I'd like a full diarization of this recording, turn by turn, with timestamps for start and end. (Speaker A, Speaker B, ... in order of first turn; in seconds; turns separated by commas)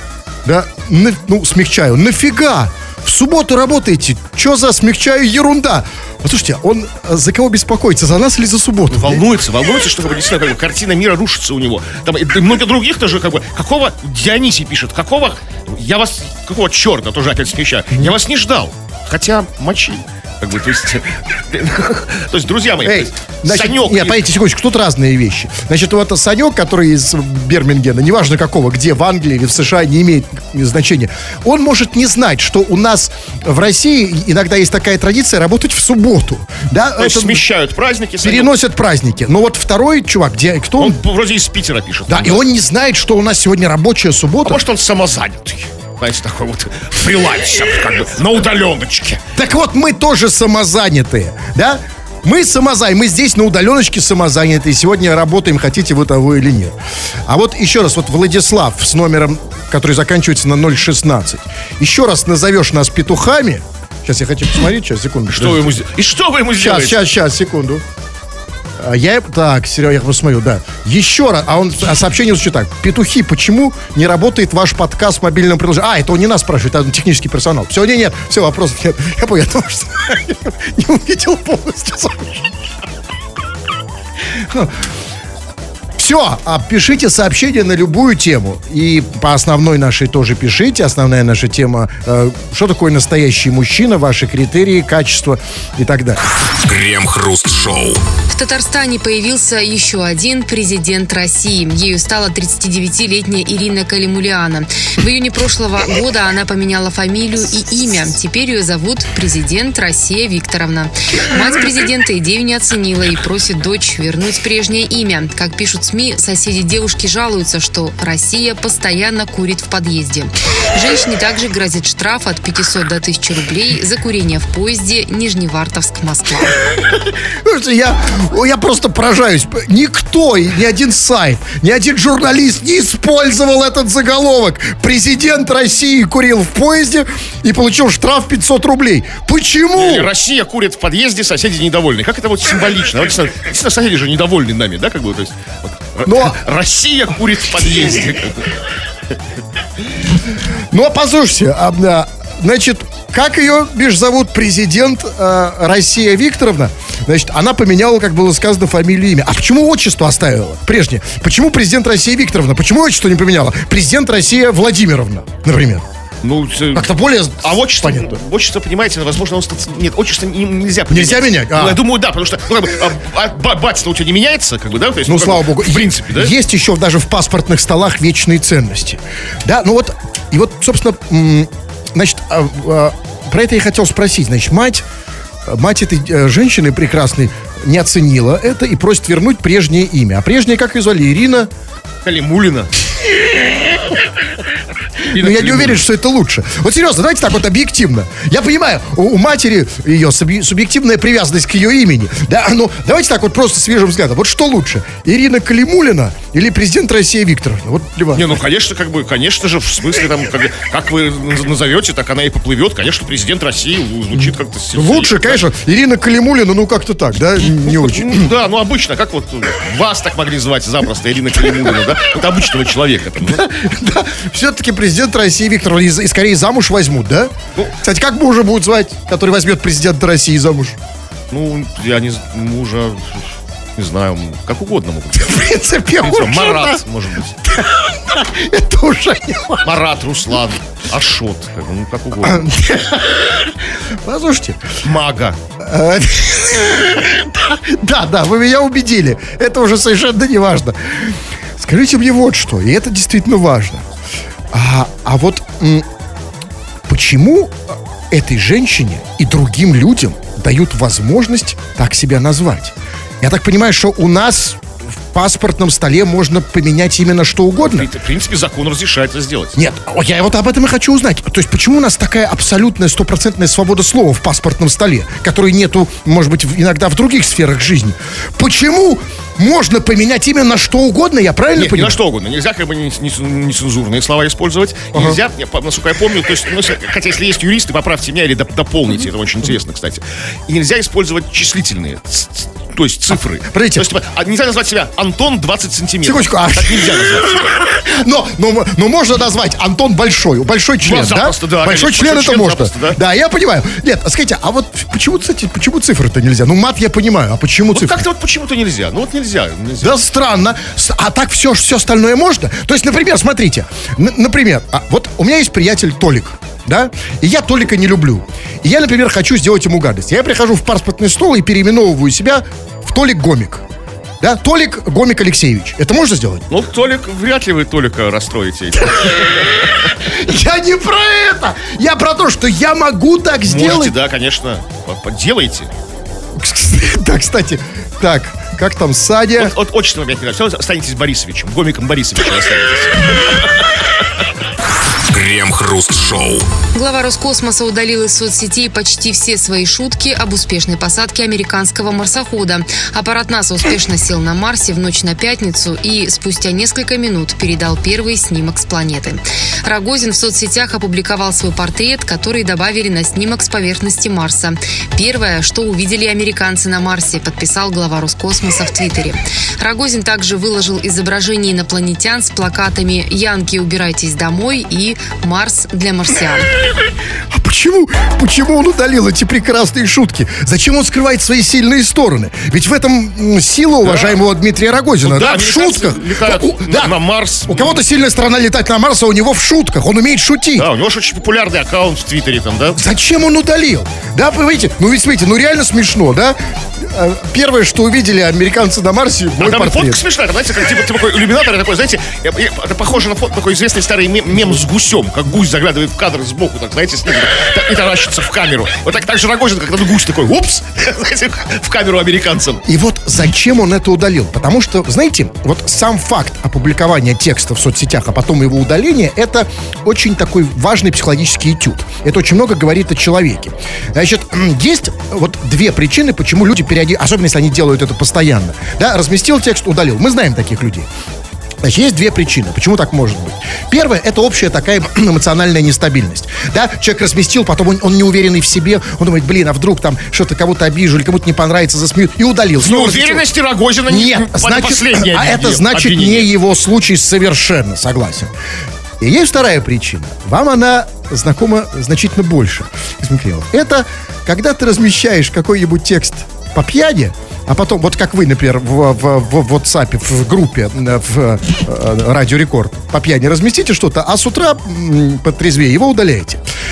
Speaker A: 0.5-9.2, Speaker B: 8.9-24.2, Speaker A: 22.9-37.4, Speaker B: 37.0-38.5, Speaker A: 38.2-41.0, Speaker B: 40.8-42.4, Speaker A: 42.1-44.6, Speaker B: 44.5-49.2, Speaker A: 49.4-56.7, Speaker A: 57.3-65.7, Speaker B: 65.3-67.0, Speaker A: 66.6-67.8, Speaker A: 68.8-82.5, Speaker A: 84.5-84.7, Speaker A: 86.0-96.2, Speaker C: 96.4-98.0, Speaker D: 98.3-126.6, Speaker A: 127.4-140.1, Speaker B: 139.8-148.6, Speaker A: 146.1-146.4, Speaker A: 150.7-165.8, Speaker B: 166.2-166.9, Speaker A: 166.7-168.2, Speaker B: 167.4-176.3, Speaker A: 170.9-171.8, Speaker A: 175.1-184.8, Speaker A: 185.5-191.5, Speaker B: 192.1-192.7, Speaker B: 195.1-195.8, Speaker A: 195.1-208.4, Speaker B: 208.2-215.4, Speaker A: 214.7-218.3, Speaker B: 217.6-223.4, Speaker A: 223.2-230.8, Speaker B: 231.3-235.4, Speaker A: 235.2-236.8, Speaker B: 236.0-237.4, Speaker A: 237.4-239.7, Speaker B: 239.6-242.4, Speaker A: 242.2-244.7, Speaker B: 244.8-245.4, Speaker A: 245.6-253.9, Speaker A: 254.5-255.9, Speaker A: 256.9-264.6, Speaker A: 265.1-267.9, Speaker B: 267.6-269.6, Speaker A: 269.6-282.0, Speaker B: 281.6-297.5, Speaker A: 284.9-285.2, Speaker A: 293.4-293.9, Speaker A: 296.0-308.0, Speaker B: 300.8-303.0, Speaker B: 307.7-310.0, Speaker A: 309.8-323.6, Speaker A: 324.2-326.4, Speaker B: 326.5-329.9, Speaker A: 329.8-333.9, Speaker B: 333.5-335.7, Speaker A: 336.4-339.6, Speaker B: 339.4-343.5, Speaker C: 344.9-346.5, Speaker D: 346.7-376.5, Speaker A: 377.3-387.0, Speaker B: 383.8-384.2, Speaker B: 385.0-387.8, Speaker A: 387.5-390.7, Speaker B: 390.6-392.8, Speaker A: 392.8-400.0, Speaker B: 399.4-412.6, Speaker A: 412.7-430.9, Speaker A: 431.6-443.2, Speaker B: 442.6-446.3, Speaker A: 443.9-448.3, Speaker A: 449.0-466.4